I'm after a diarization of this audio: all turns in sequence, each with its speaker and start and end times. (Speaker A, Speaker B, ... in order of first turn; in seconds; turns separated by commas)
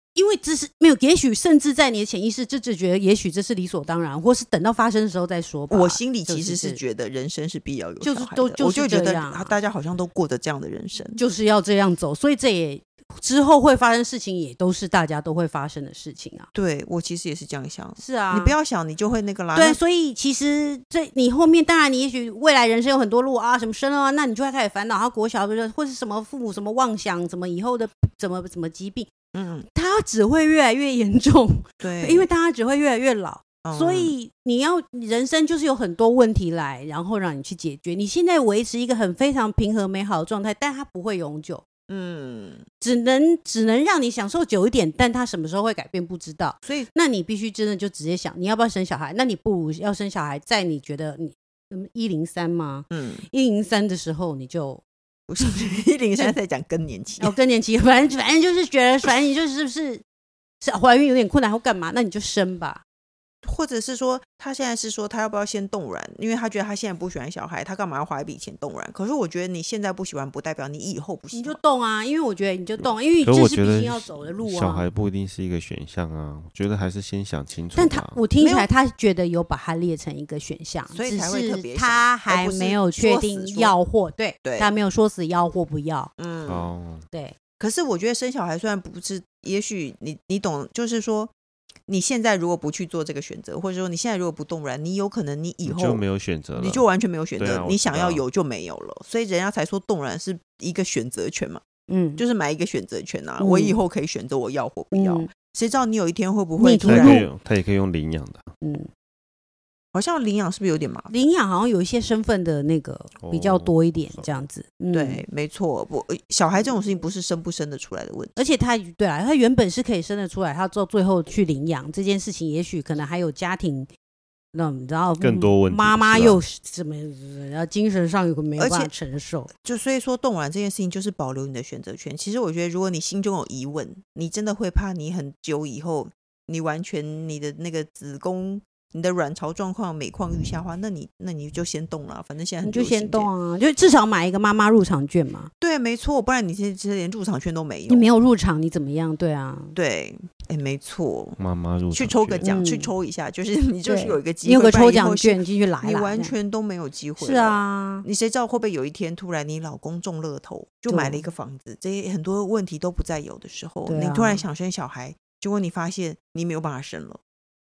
Speaker A: 0.1-6.8, Speaker B: 5.7-11.2, Speaker A: 8.0-9.6, Speaker A: 11.1-16.5, Speaker B: 16.5-19.8, Speaker A: 18.0-18.6, Speaker A: 19.5-29.1, Speaker B: 29.3-29.6, Speaker A: 29.6-41.6, Speaker B: 31.8-32.3, Speaker B: 33.6-34.1, Speaker B: 41.9-42.6, Speaker A: 42.8-54.8, Speaker B: 46.6-46.9, Speaker B: 52.9-53.2, Speaker B: 55.3-57.3, Speaker A: 55.4-56.3, Speaker A: 57.2-60.0, Speaker A: 60.6-62.8, Speaker B: 63.4-71.6, Speaker A: 71.3-74.8, Speaker C: 72.8-78.2, Speaker A: 77.7-86.1, Speaker B: 78.4-78.7, Speaker B: 80.9-83.8, Speaker B: 84.4-84.7, Speaker B: 86.2-86.7, Speaker C: 86.5-87.0, Speaker B: 87.6-91.3, Speaker B: 91.9-96.0, Speaker C: 95.6-98.2, Speaker B: 96.5-101.6, Speaker A: 101.9-102.2, Speaker B: 102.2-107.2, Speaker A: 103.4-103.8, Speaker A: 104.9-105.3, Speaker A: 106.6-107.3, Speaker C: 106.8-108.5, Speaker A: 108.6-108.9, Speaker B: 109.9-111.1, Speaker A: 111.1-115.2, Speaker C: 113.2-114.3, Speaker B: 114.9-118.3, Speaker A: 118.3-123.9, Speaker A: 124.5-129.5, Speaker C: 125.2-126.4, Speaker B: 128.6-128.9, Speaker B: 129.6-143.3, Speaker A: 142.6-145.5, Speaker B: 145.6-148.1, Speaker A: 147.9-149.7, Speaker B: 149.7-151.4, Speaker C: 151.4-152.5, Speaker B: 151.9-167.2, Speaker A: 152.4-152.9, Speaker A: 153.8-156.3, Speaker A: 157.2-158.1, Speaker A: 160.9-161.2, Speaker A: 163.8-164.4